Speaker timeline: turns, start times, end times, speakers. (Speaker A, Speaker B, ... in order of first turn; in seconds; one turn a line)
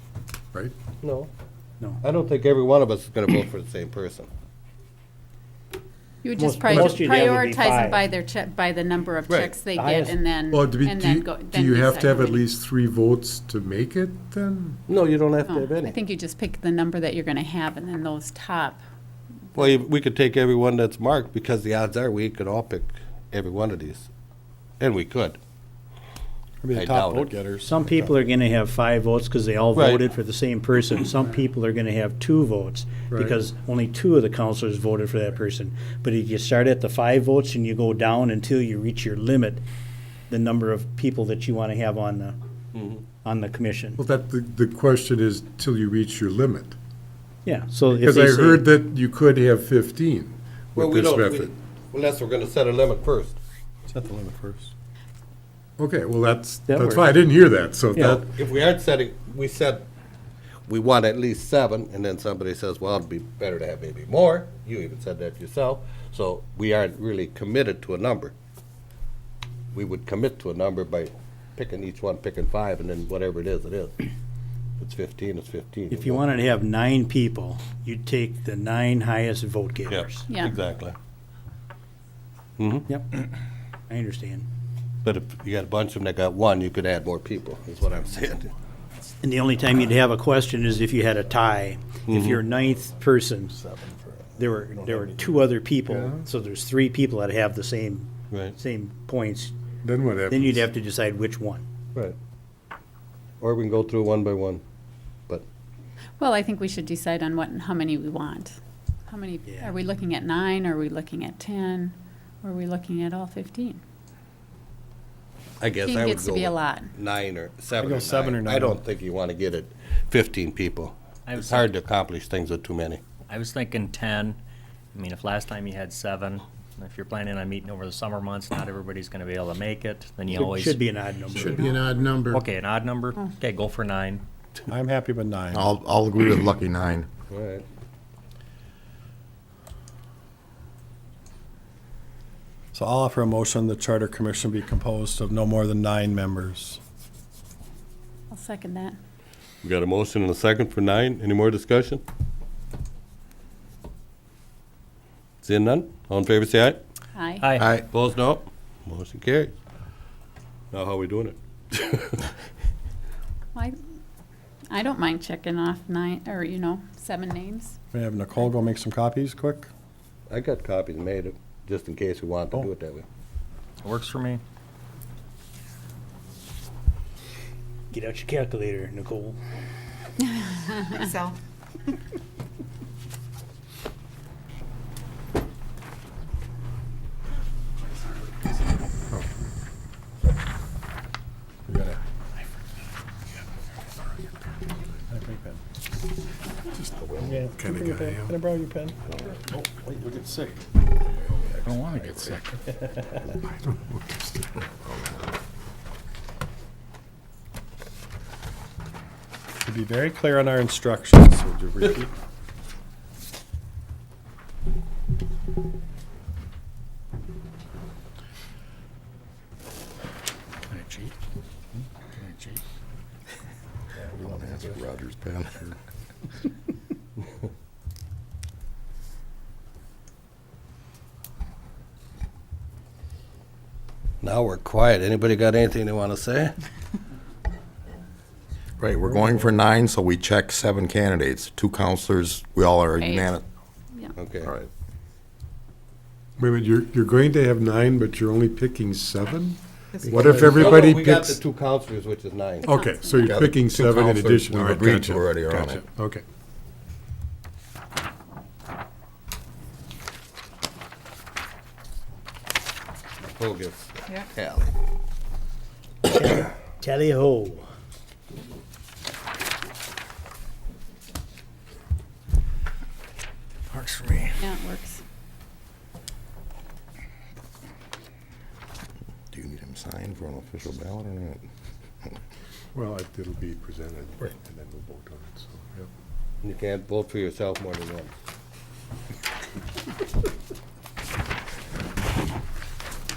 Speaker A: 1.0-1.3
Speaker A: 2.0-4.3
Speaker B: 6.2-12.5
Speaker C: 6.4-8.0
Speaker A: 9.3-9.5
Speaker C: 9.8-10.2
Speaker D: 10.5-14.8
Speaker A: 14.9-15.9
Speaker B: 15.5-18.8
Speaker A: 19.6-24.1
Speaker A: 24.8-25.4
Speaker E: 26.6-27.8
Speaker A: 26.7-27.3
Speaker C: 27.6-39.6
Speaker A: 29.7-30.1
Speaker C: 40.3-42.4
Speaker A: 42.7-43.0
Speaker C: 43.2-44.0
Speaker D: 44.0-46.8
Speaker C: 47.5-48.7
Speaker D: 47.9-51.5
Speaker A: 50.8-53.4
Speaker E: 53.9-54.7
Speaker D: 55.8-58.3
Speaker C: 56.7-57.1
Speaker C: 58.0-58.2
Speaker A: 58.0-59.9
Speaker A: 60.7-68.3
Speaker A: 69.7-74.1
Speaker A: 74.8-76.2
Speaker C: 75.9-80.2
Speaker A: 79.9-81.0
Speaker B: 80.3-80.6
Speaker A: 82.6-82.9
Speaker C: 82.9-83.1
Speaker C: 83.9-84.5
Speaker A: 85.0-88.5
Speaker C: 89.2-93.6
Speaker A: 92.1-92.4
Speaker E: 93.7-94.3
Speaker C: 94.4-99.5
Speaker D: 95.9-96.2
Speaker D: 99.8-100.7
Speaker C: 100.3-101.7
Speaker A: 103.4-104.6
Speaker B: 106.2-113.8
Speaker C: 109.5-109.8
Speaker A: 115.6-123.0
Speaker B: 115.7-116.9
Speaker E: 117.8-118.8
Speaker F: 121.3-121.7
Speaker F: 123.3-124.4
Speaker F: 124.9-130.8
Speaker C: 130.3-131.7
Speaker F: 131.4-131.7
Speaker D: 131.5-132.4
Speaker F: 132.2-134.2
Speaker E: 134.7-135.7
Speaker G: 135.5-137.1
Speaker A: 137.3-137.7
Speaker E: 142.7-146.8
Speaker B: 148.3-149.0
Speaker A: 149.6-152.0
Speaker A: 155.4-156.8
Speaker B: 157.2-157.5
Speaker F: 157.4-157.7
Speaker G: 157.6-157.8
Speaker A: 157.8-159.5
Speaker A: 160.7-162.2
Speaker B: 164.7-167.8
Speaker E: 167.9-169.7
Speaker A: 170.3-173.1
Speaker F: 173.8-174.4
Speaker C: 177.9-179.4
Speaker B: 180.4-180.9
Speaker E: 191.7-192.0
Speaker E: 195.1-195.6
Speaker D: 196.8-198.4
Speaker E: 197.2-199.0
Speaker E: 199.5-200.6
Speaker G: 201.3-202.4
Speaker D: 201.9-202.4
Speaker D: 203.2-205.1
Speaker E: 209.6-212.1
Speaker A: 224.2-224.7
Speaker G: 224.2-225.8
Speaker A: 234.2-236.6
Speaker G: 238.8-243.4
Speaker B: 243.0-243.3
Speaker A: 244.2-244.5
Speaker G: 244.4-244.7
Speaker D: 246.4-251.4
Speaker A: 250.3-252.7
Speaker B: 252.6-253.2
Speaker D: 252.7-256.2
Speaker G: 253.2-255.8
Speaker A: 263.2-264.7
Speaker C: 266.0-267.6
Speaker G: 273.9-274.1
Speaker B: 274.4-275.0
Speaker G: 279.3-281.4
Speaker D: 282.7-285.9
Speaker A: 286.4-288.1